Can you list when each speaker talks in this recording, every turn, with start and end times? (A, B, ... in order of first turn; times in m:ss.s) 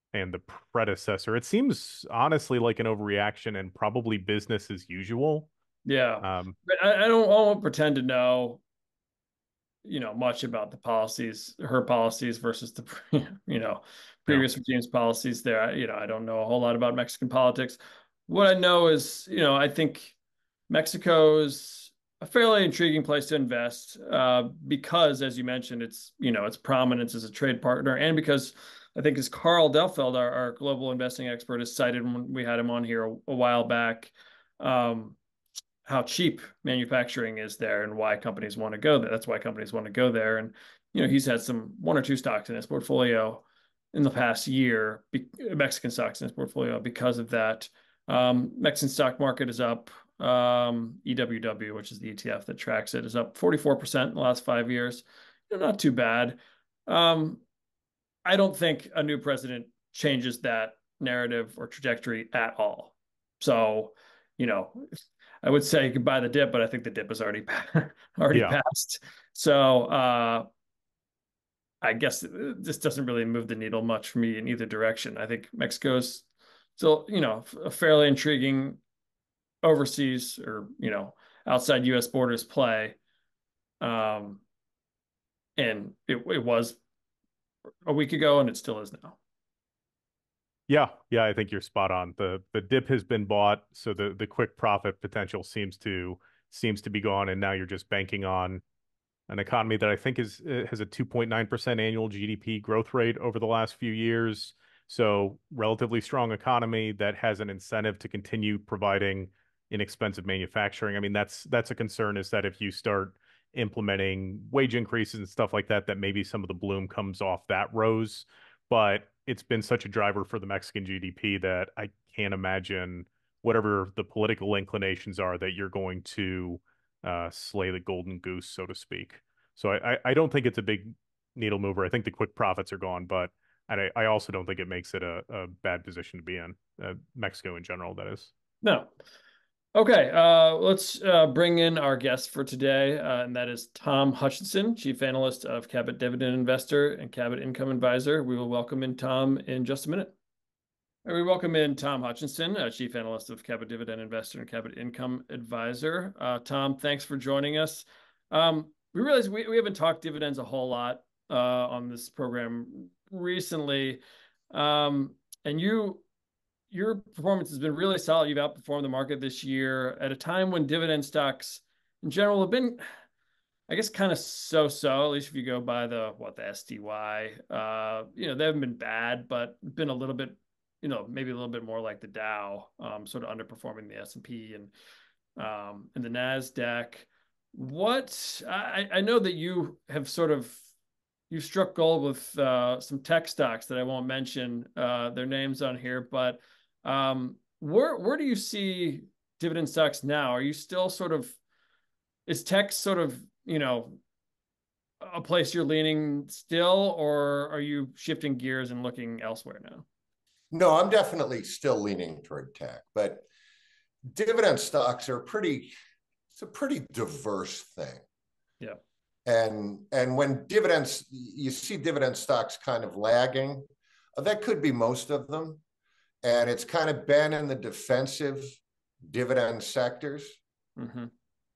0:00.1-0:05.5 A
0:05.9-0:08.6 B
0:06.2-0:06.6 A
0:09.8-0:20.2 B
0:20.7-0:35.2 B
0:35.8-0:57.4 B
0:58.2-1:10.5 B
1:08.3-1:08.6 A
1:11.8-1:16.3 B
1:16.8-1:18.8 B
1:19.6-1:23.0 B
1:23.8-1:24.4 B
1:25.6-1:26.8 B
1:27.9-1:29.2 B
1:30.7-1:38.6 A
1:39.3-2:18.3 A
2:18.6-2:18.9 B
2:19.8-2:30.1 B
2:31.0-2:44.0 B
2:44.5-2:46.0 B
2:46.7-2:52.8 B
2:53.7-3:04.7 B
3:05.4-3:10.6 B
3:11.3-3:21.4 B
3:22.3-3:24.0 B
3:25.0-3:29.8 B
3:30.5-3:33.3 C
3:34.1-3:35.7 C
3:36.4-3:38.0 C
3:39.3-3:45.6 C
3:46.2-3:50.4 C
3:50.8-3:51.1 B